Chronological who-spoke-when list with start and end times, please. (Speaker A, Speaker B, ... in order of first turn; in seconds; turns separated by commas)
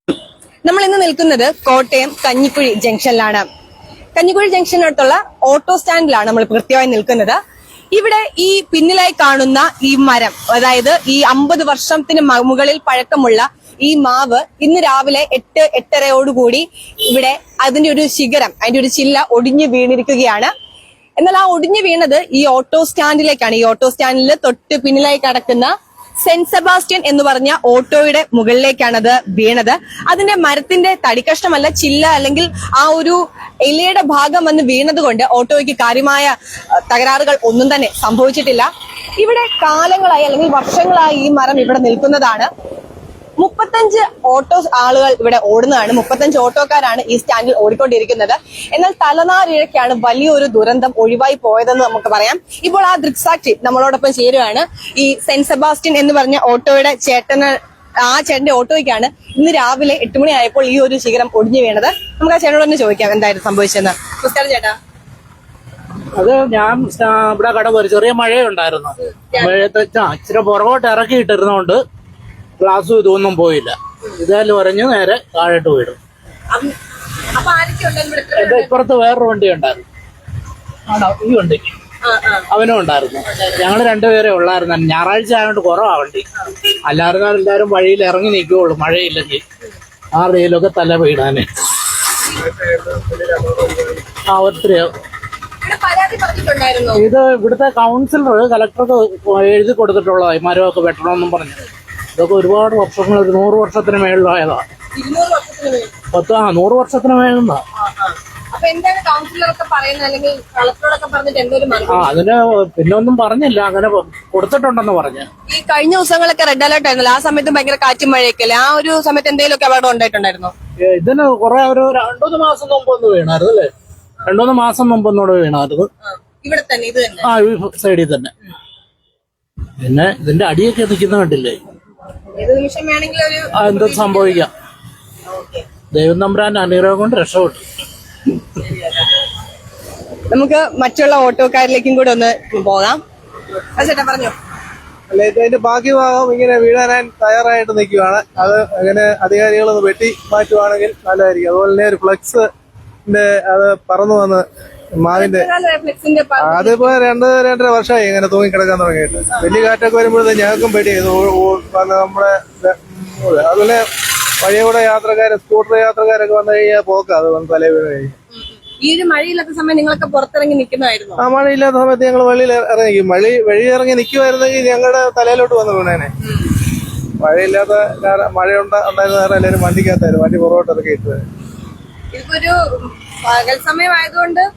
Speaker A: 0.7-3.5, Speaker A: 4.2-7.4, Speaker A: 7.9-20.5, Speaker A: 21.2-25.7, Speaker A: 26.2-42.5, Speaker A: 43.4-64.8, Speaker B: 66.2-71.8, Speaker A: 69.0-69.7, Speaker B: 72.6-76.0, Speaker A: 77.3-78.8, Speaker B: 78.4-79.8, Speaker B: 80.9-81.8, Speaker A: 82.0-82.5, Speaker B: 82.5-86.3, Speaker B: 86.9-89.4, Speaker B: 90.1-91.5, Speaker A: 92.2-92.5, Speaker C: 92.4-94.0, Speaker B: 94.3-94.9, Speaker A: 95.6-97.1, Speaker B: 96.9-101.7, Speaker B: 102.2-104.7, Speaker A: 105.0-105.9, Speaker B: 106.1-107.7, Speaker A: 107.8-112.2, Speaker B: 111.9-115.3, Speaker A: 115.5-120.5, Speaker B: 120.8-123.7, Speaker B: 124.2-125.9, Speaker A: 126.0-127.3, Speaker B: 127.2-128.3, Speaker B: 129.8-131.6, Speaker A: 132.3-134.5, Speaker B: 133.5-134.5, Speaker A: 135.3-135.7, Speaker B: 135.9-137.6, Speaker A: 138.6-139.0, Speaker A: 140.3-143.0, Speaker A: 143.7-144.3, Speaker C: 145.1-152.5, Speaker C: 153.1-154.4, Speaker C: 155.0-155.5, Speaker A: 155.1-156.9, Speaker C: 156.4-163.8, Speaker C: 164.4-168.1, Speaker A: 168.3-171.2, Speaker C: 171.2-176.1, Speaker C: 177.2-181.2, Speaker A: 182.1-184.5